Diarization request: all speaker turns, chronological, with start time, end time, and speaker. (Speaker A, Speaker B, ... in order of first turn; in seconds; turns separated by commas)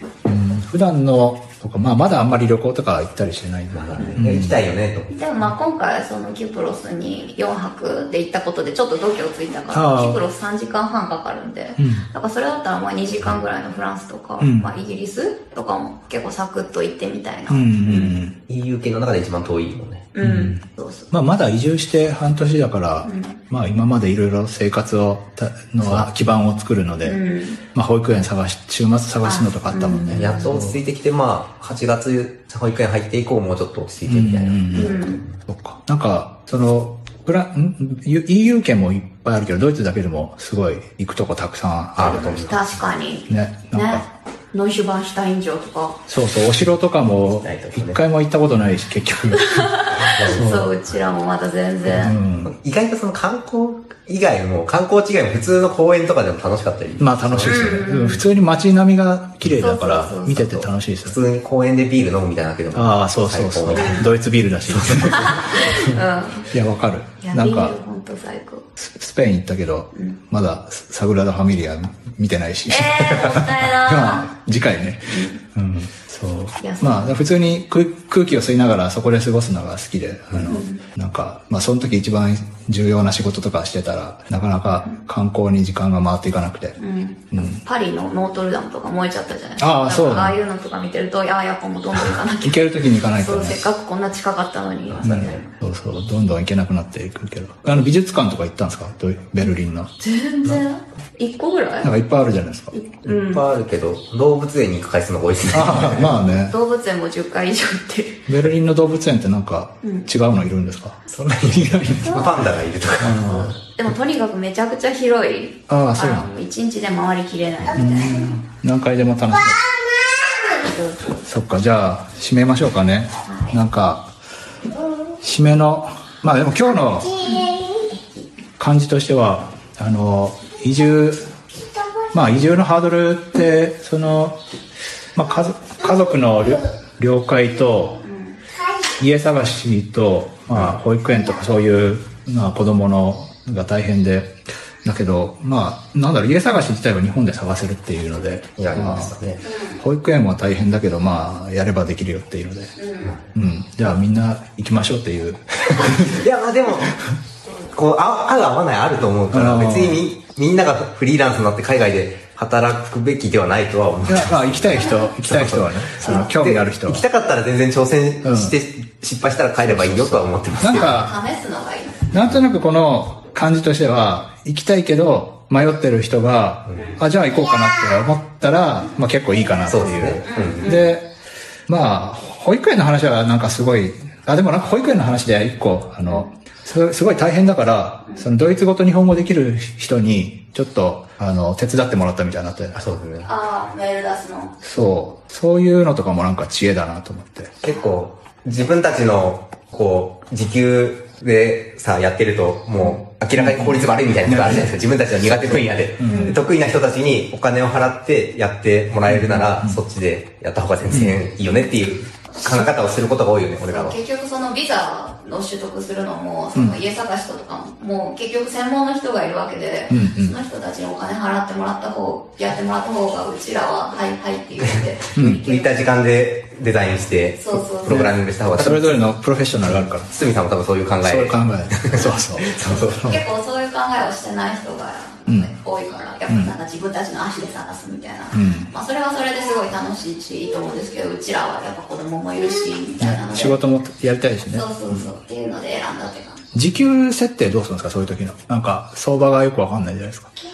Speaker A: 0.2-4.6, Speaker B: 3.7-5.1, Speaker C: 4.0-4.4, Speaker C: 5.1-18.2, Speaker A: 9.7-10.2, Speaker A: 11.8-12.0, Speaker A: 14.4-14.7, Speaker A: 17.5-18.4, Speaker B: 18.5-20.1, Speaker C: 20.1-21.1, Speaker A: 20.2-27.2, Speaker C: 23.0-23.4, Speaker C: 27.0-27.6, Speaker A: 27.7-30.8, Speaker C: 29.2-30.5, Speaker B: 30.1-35.4, Speaker A: 34.1-44.0, Speaker C: 34.7-35.2, Speaker B: 42.0-42.6, Speaker C: 42.1-46.0, Speaker A: 46.1-50.7, Speaker B: 47.3-48.0, Speaker C: 49.3-52.1, Speaker B: 49.9-50.7, Speaker A: 51.9-52.5, Speaker B: 52.4-57.9, Speaker A: 57.0-61.2, Speaker C: 57.4-58.2, Speaker C: 59.5-60.6, Speaker B: 61.1-64.1, Speaker A: 62.7-65.9, Speaker C: 63.7-64.1, Speaker B: 64.6-65.9, Speaker C: 65.1-66.5, Speaker A: 66.5-67.8, Speaker C: 67.2-68.7, Speaker A: 68.8-86.8, Speaker C: 69.9-70.2, Speaker C: 72.7-74.3, Speaker C: 75.1-75.4, Speaker C: 76.6-77.1, Speaker C: 80.3-80.8, Speaker C: 86.8-95.5, Speaker A: 87.3-87.6, Speaker A: 89.6-90.4, Speaker A: 92.4-93.6, Speaker B: 94.9-95.3, Speaker A: 95.0-99.9, Speaker C: 100.0-101.9, Speaker A: 101.8-102.7, Speaker C: 102.7-103.4, Speaker B: 103.0-106.2, Speaker A: 105.5-106.5, Speaker C: 106.5-108.3, Speaker A: 108.3-112.3, Speaker C: 109.8-110.1, Speaker B: 111.1-113.5, Speaker C: 112.0-112.3, Speaker A: 113.0-113.5, Speaker C: 113.3-118.3, Speaker A: 115.7-116.3, Speaker A: 117.7-119.6, Speaker C: 120.6-121.0, Speaker A: 121.2-124.1, Speaker C: 123.3-123.6, Speaker A: 125.2-127.3, Speaker C: 127.2-128.2, Speaker A: 128.6-131.2, Speaker A: 132.1-134.4, Speaker A: 135.1-138.0, Speaker C: 138.0-138.4, Speaker A: 138.9-152.8, Speaker B: 148.6-149.4, Speaker C: 149.4-149.8, Speaker C: 152.8-153.1, Speaker A: 153.3-156.2, Speaker B: 155.7-156.9, Speaker A: 156.8-157.1, Speaker B: 157.7-171.1, Speaker A: 159.3-160.0, Speaker A: 164.0-167.1, Speaker A: 168.2-168.6, Speaker A: 169.6-171.1, Speaker C: 170.8-172.1, Speaker A: 172.1-181.1, Speaker B: 176.7-176.9, Speaker B: 179.7-180.8, Speaker C: 180.2-180.9, Speaker A: 181.7-192.8, Speaker B: 192.8-193.3, Speaker C: 193.2-194.6, Speaker A: 194.6-197.5, Speaker B: 197.6-214.0, Speaker A: 203.4-204.7, Speaker A: 206.0-206.4, Speaker C: 206.0-206.4, Speaker A: 209.1-209.8, Speaker A: 210.9-211.2, Speaker C: 213.7-225.9, Speaker A: 219.9-220.3, Speaker B: 224.6-229.2, Speaker A: 225.2-225.4, Speaker C: 227.4-228.1, Speaker A: 227.8-230.1, Speaker B: 229.7-233.2, Speaker A: 231.0-233.2, Speaker C: 233.0-243.6, Speaker A: 236.3-236.5, Speaker A: 238.3-238.7, Speaker A: 243.0-245.1, Speaker C: 244.5-246.4, Speaker A: 246.5-250.3